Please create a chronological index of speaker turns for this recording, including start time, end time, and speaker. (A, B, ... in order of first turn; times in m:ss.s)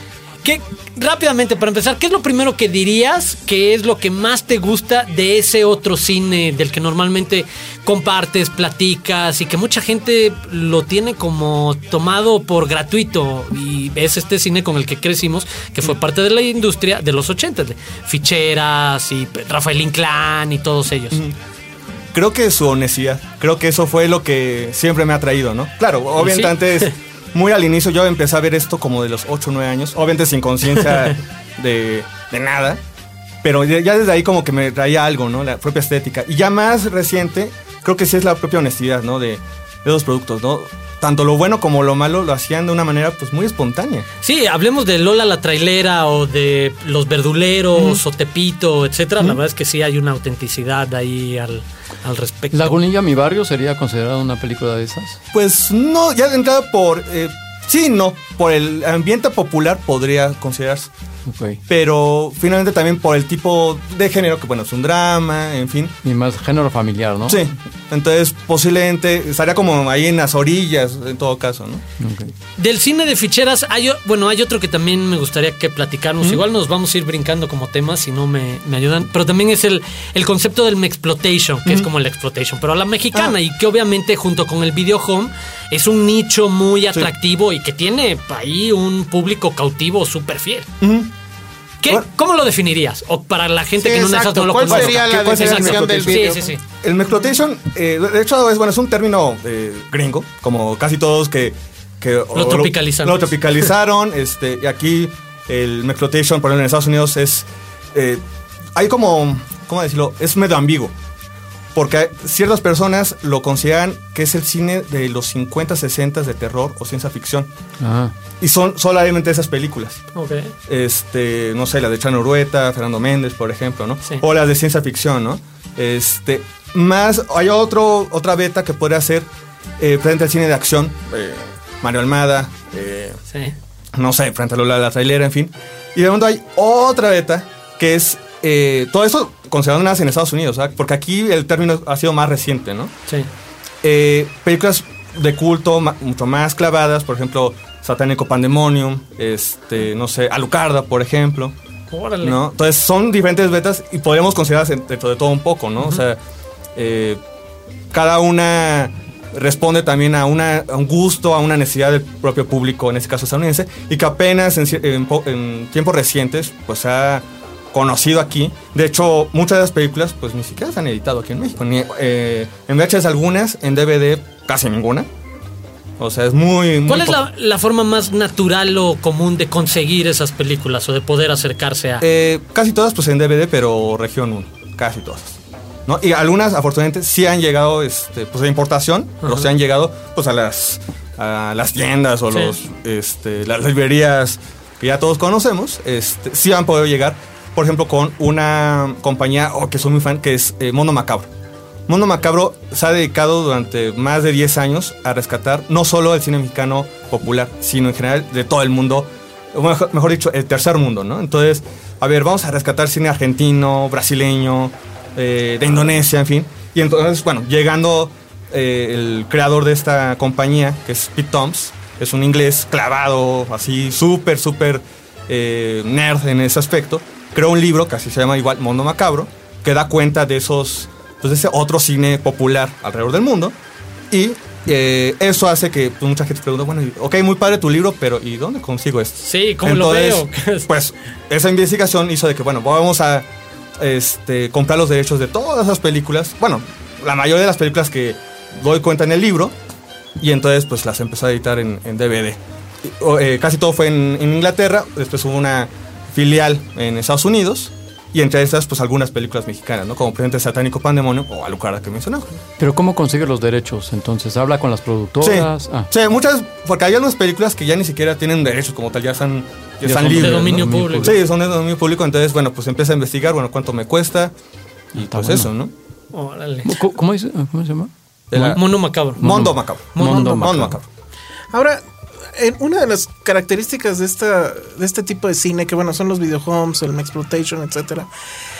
0:00.4-0:21.2 A
0:22.1-0:32.8 B
0:26.2-0:26.9 A
0:33.4-0:44.0 B
0:44.2-0:52.8 A
0:47.7-0:48.0 B
0:52.5-0:55.2 C
0:55.3-1:00.9 B
1:01.2-1:01.6 C
1:01.7-1:05.9 B
1:06.0-1:07.4 C
1:07.2-1:11.8 B
1:12.0-1:12.3 C
1:12.6-1:30.7 A
1:30.8-1:31.1 B
1:31.8-1:36.6 A
1:33.8-1:36.5 D
1:34.6-1:48.2 B
1:42.3-1:43.3 A
1:48.7-1:50.9 B
1:51.7-1:57.5 B
1:57.8-1:58.1 C
1:58.4-2:00.0 B
2:00.1-2:00.5 A
2:00.7-2:13.2 B
2:13.9-2:22.9 B
2:23.8-2:31.5 B
2:31.9-2:32.4 A
2:32.2-2:36.2 B
2:36.8-2:37.2 B
2:37.9-2:55.1 B
2:56.0-2:57.2 B
2:56.9-3:02.0 A
3:02.0-3:21.3 B
3:21.9-3:53.6 B
3:54.1-4:03.3 B
3:59.2-4:00.7 A
4:03.8-4:09.5 B
4:10.2-4:22.4 B
4:22.6-4:25.9 C
4:25.2-4:34.3 B
4:29.8-4:31.2 C
4:30.1-4:31.1 A
4:34.9-4:35.5 C
4:34.9-4:35.7 B
4:36.1-4:36.7 A
4:36.6-4:38.6 C
4:38.3-4:40.8 B
4:38.4-4:39.4 A
4:39.2-4:40.8 C
4:40.0-4:40.5 A
4:41.5-4:41.8 D
4:42.3-4:48.1 D